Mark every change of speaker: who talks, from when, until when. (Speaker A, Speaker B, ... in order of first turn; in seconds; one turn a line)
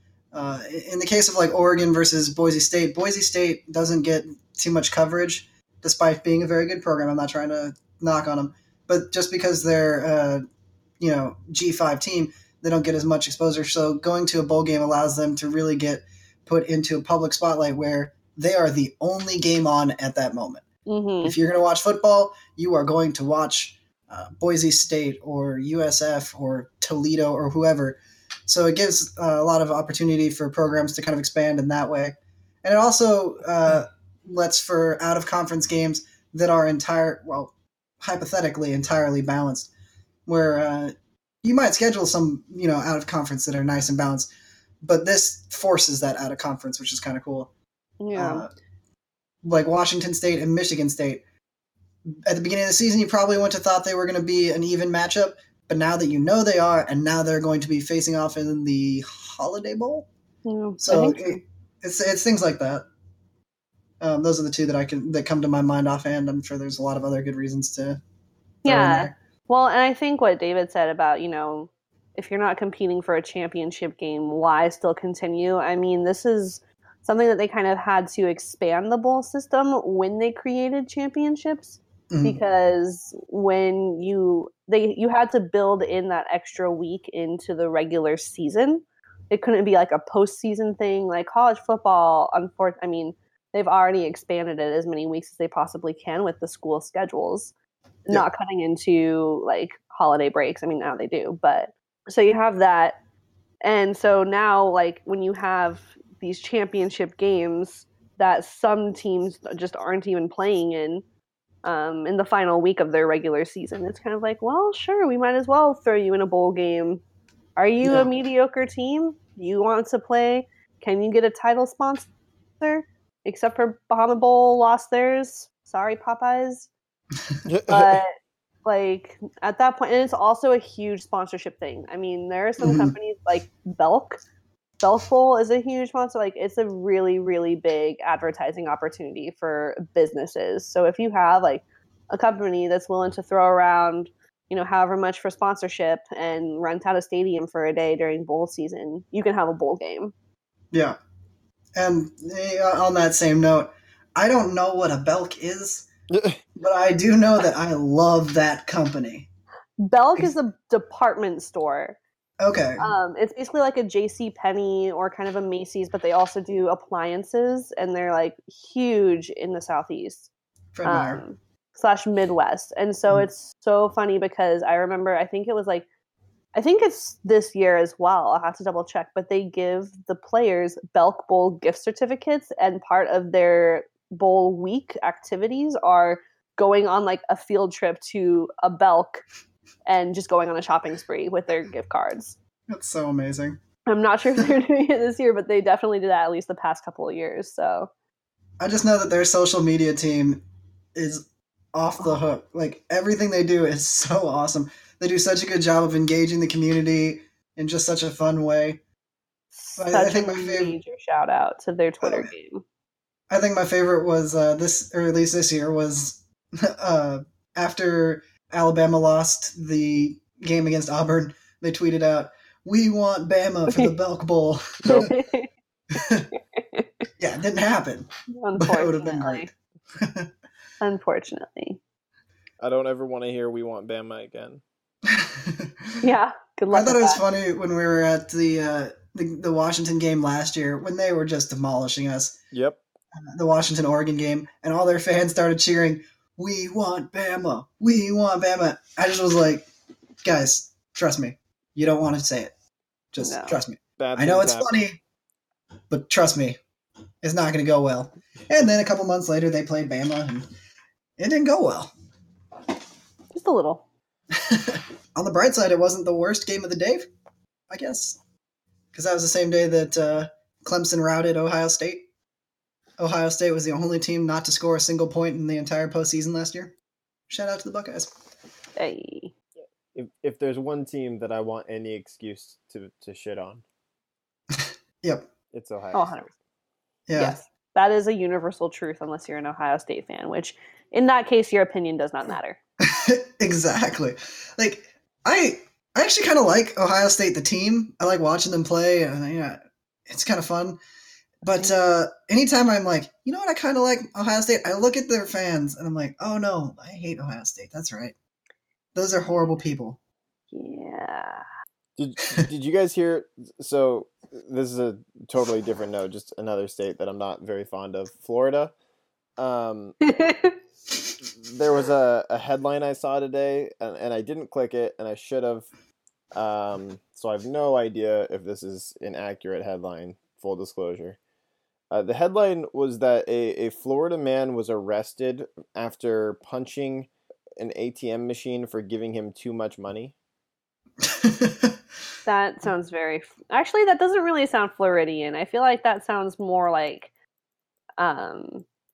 Speaker A: 0.3-10.4
Speaker A: 11.0-20.6
Speaker B: 20.9-21.4
Speaker A: 21.2-39.7
Speaker A: 40.3-44.3
Speaker A: 44.8-47.5
Speaker B: 48.0-48.5
Speaker A: 48.1-48.5
Speaker A: 49.4-51.2
Speaker A: 52.2-60.1
Speaker B: 60.5-61.4
Speaker A: 60.8-62.9
Speaker A: 64.0-68.0
Speaker B: 68.6-97.5
Speaker A: 68.7-69.1
Speaker A: 82.1-82.4
Speaker B: 98.1-103.0
Speaker B: 103.6-111.0
Speaker B: 111.7-117.0
Speaker B: 117.6-122.1
Speaker A: 117.8-118.1
Speaker B: 122.6-126.7
Speaker C: 127.5-128.0
Speaker B: 127.7-128.1
Speaker B: 128.7-134.2
Speaker A: 132.6-132.9
Speaker B: 134.8-150.1
Speaker A: 150.7-151.0
Speaker A: 151.8-155.9
Speaker C: 156.1-156.4
Speaker A: 156.6-159.3
Speaker B: 159.8-162.0
Speaker A: 162.4-162.9
Speaker B: 162.8-170.3
Speaker A: 170.8-171.2
Speaker B: 170.8-175.9
Speaker B: 176.6-189.2
Speaker B: 189.9-192.4
Speaker A: 192.7-193.6
Speaker B: 193.9-197.9
Speaker A: 198.6-200.4
Speaker A: 200.9-208.8
Speaker B: 209.6-212.6
Speaker A: 209.8-210.8
Speaker A: 212.0-212.3
Speaker A: 213.3-225.1
Speaker C: 224.8-225.1
Speaker B: 224.9-225.5
Speaker A: 225.9-226.3
Speaker B: 226.3-227.1
Speaker A: 227.2-230.3
Speaker B: 228.3-229.5
Speaker B: 230.8-231.8
Speaker C: 232.6-234.6
Speaker A: 235.1-236.0
Speaker B: 236.0-237.2
Speaker A: 236.7-242.4
Speaker C: 242.5-242.8
Speaker A: 243.2-249.7
Speaker A: 250.2-252.5
Speaker A: 253.1-255.0
Speaker B: 253.2-253.6
Speaker C: 254.0-254.7
Speaker A: 255.9-256.6
Speaker A: 257.2-260.5
Speaker A: 261.2-261.9
Speaker B: 263.3-263.8
Speaker A: 264.4-267.1
Speaker A: 267.7-268.2
Speaker A: 268.9-272.1
Speaker A: 273.0-276.7
Speaker A: 277.3-278.1
Speaker B: 278.8-279.3
Speaker C: 279.6-283.6
Speaker A: 284.5-285.3
Speaker C: 285.5-286.1
Speaker B: 285.9-286.3
Speaker A: 287.1-287.4
Speaker B: 287.2-292.6
Speaker A: 292.9-300.8
Speaker A: 301.4-308.1
Speaker A: 308.9-310.0
Speaker B: 310.5-311.4
Speaker C: 312.0-318.7
Speaker C: 319.4-320.0
Speaker B: 320.0-320.6
Speaker C: 321.2-325.7
Speaker C: 326.3-331.2
Speaker C: 331.9-340.1
Speaker A: 341.0-341.8
Speaker B: 342.2-347.1
Speaker B: 348.0-348.6